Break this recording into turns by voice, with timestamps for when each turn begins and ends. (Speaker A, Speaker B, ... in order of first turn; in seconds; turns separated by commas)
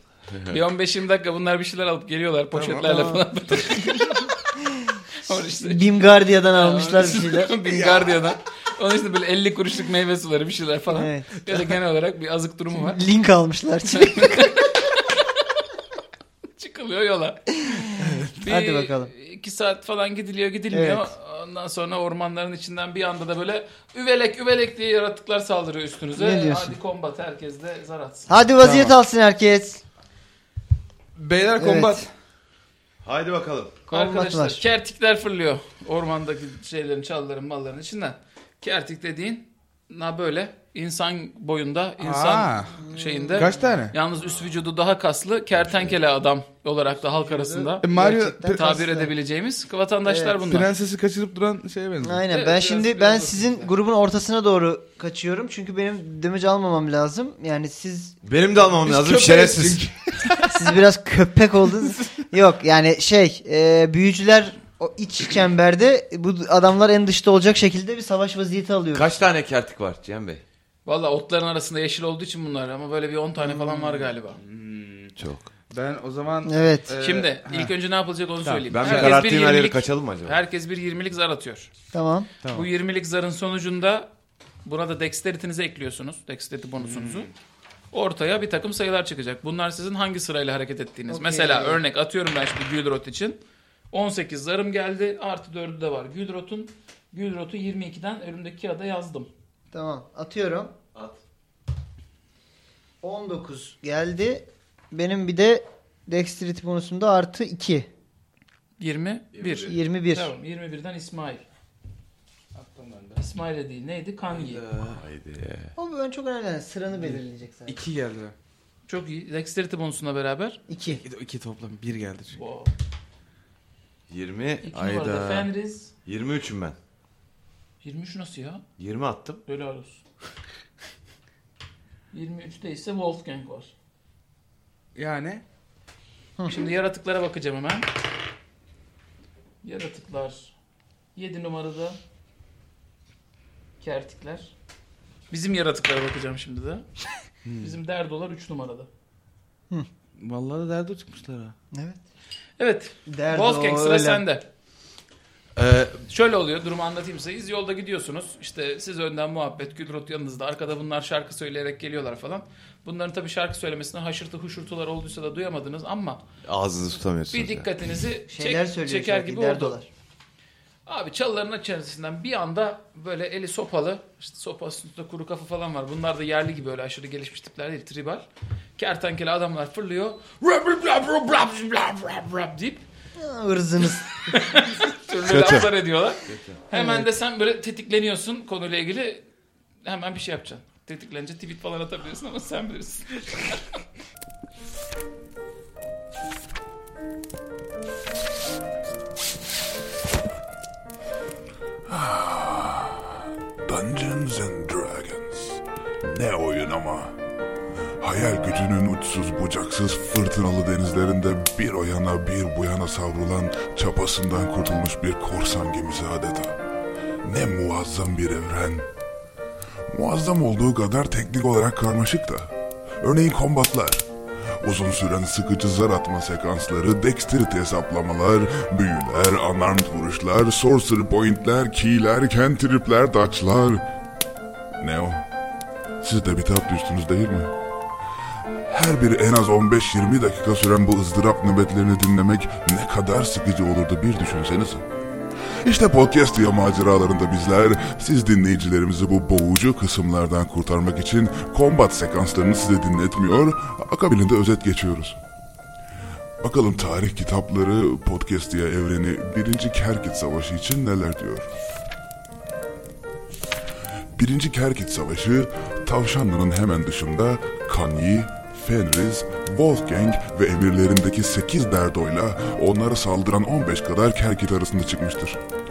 Speaker A: 0.3-0.6, Speaker B: 0.5-4.3, Speaker C: 2.5-2.8, Speaker D: 2.8-3.2, Speaker D: 4.6-8.2, Speaker B: 5.2-6.0, Speaker B: 6.5-13.0, Speaker D: 10.9-11.5, Speaker D: 12.7-14.5, Speaker B: 13.9-15.6, Speaker B: 16.6-17.6, Speaker D: 17.6-19.1, Speaker C: 18.0-18.3, Speaker B: 18.4-28.3, Speaker D: 20.7-21.1, Speaker D: 26.2-26.8, Speaker D: 28.3-29.8, Speaker C: 28.6-28.9, Speaker C: 31.2-32.1, Speaker D: 31.6-32.1, Speaker A: 33.0-33.8, Speaker D: 33.9-34.6, Speaker B: 33.9-47.9, Speaker C: 42.0-42.8, Speaker D: 42.8-43.8, Speaker C: 43.4-44.0, Speaker D: 47.0-49.1, Speaker C: 47.8-48.7, Speaker B: 48.5-50.7, Speaker D: 50.1-50.4, Speaker C: 50.4-52.3, Speaker D: 52.0-58.2, Speaker B: 52.3-53.7, Speaker A: 58.2-59.9, Speaker C: 58.7-60.6, Speaker D: 60.5-69.1, Speaker A: 68.9-70.4, Speaker B: 70.9-74.4, Speaker D: 73.4-73.9, Speaker C: 74.0-75.2, Speaker A: 75.2-75.5, Speaker C: 75.7-77.7, Speaker D: 76.5-76.9, Speaker B: 77.0-81.7, Speaker C: 78.5-79.2, Speaker A: 78.7-80.4, Speaker D: 81.9-82.3, Speaker C: 82.4-82.7, Speaker B: 82.5-84.1, Speaker B: 84.7-87.3, Speaker C: 86.8-87.3, Speaker B: 87.9-93.4, Speaker D: 91.1-91.8, Speaker B: 93.9-99.3, Speaker D: 99.7-100.7, Speaker D: 103.0-107.9, Speaker B: 108.8-111.4, Speaker A: 109.3-109.7, Speaker D: 109.6-110.3, Speaker C: 112.5-113.2, Speaker B: 113.2-114.7, Speaker A: 114.3-115.7, Speaker D: 115.8-117.8, Speaker C: 117.0-118.3, Speaker B: 118.9-120.6, Speaker D: 120.7-121.0, Speaker C: 121.0-122.4, Speaker B: 122.3-122.7, Speaker A: 124.1-125.5, Speaker B: 124.6-125.9, Speaker A: 126.0-126.8, Speaker B: 127.8-128.6, Speaker A: 128.8-129.4, Speaker B: 129.5-130.0, Speaker B: 132.1-133.7, Speaker C: 134.9-135.4, Speaker B: 136.5-137.9, Speaker B: 139.6-140.5, Speaker B: 141.2-142.0, Speaker B: 143.8-144.5, Speaker B: 145.3-146.9, Speaker C: 147.4-147.8, Speaker B: 147.6-148.9, Speaker C: 150.2-151.5, Speaker D: 151.7-152.0, Speaker B: 152.6-154.4, Speaker D: 153.1-154.2, Speaker A: 155.6-156.0, Speaker B: 156.1-166.2, Speaker A: 166.4-167.7, Speaker B: 167.3-169.8, Speaker D: 168.3-169.9, Speaker B: 170.9-178.2, Speaker B: 178.8-182.8, Speaker D: 183.2-184.3, Speaker B: 184.2-189.2, Speaker A: 185.2-185.7, Speaker A: 186.3-186.6, Speaker D: 186.7-187.1, Speaker B: 189.8-193.6, Speaker E: 201.9-207.2, Speaker E: 208.0-216.6, Speaker E: 217.2-218.9, Speaker E: 219.9-224.0, Speaker E: 224.6-233.8, Speaker E: 234.8-235.2, Speaker E: 236.0-237.5, Speaker E: 238.7-244.8, Speaker E: 245.6-255.2, Speaker E: 256.4-261.5, Speaker E: 264.1-275.4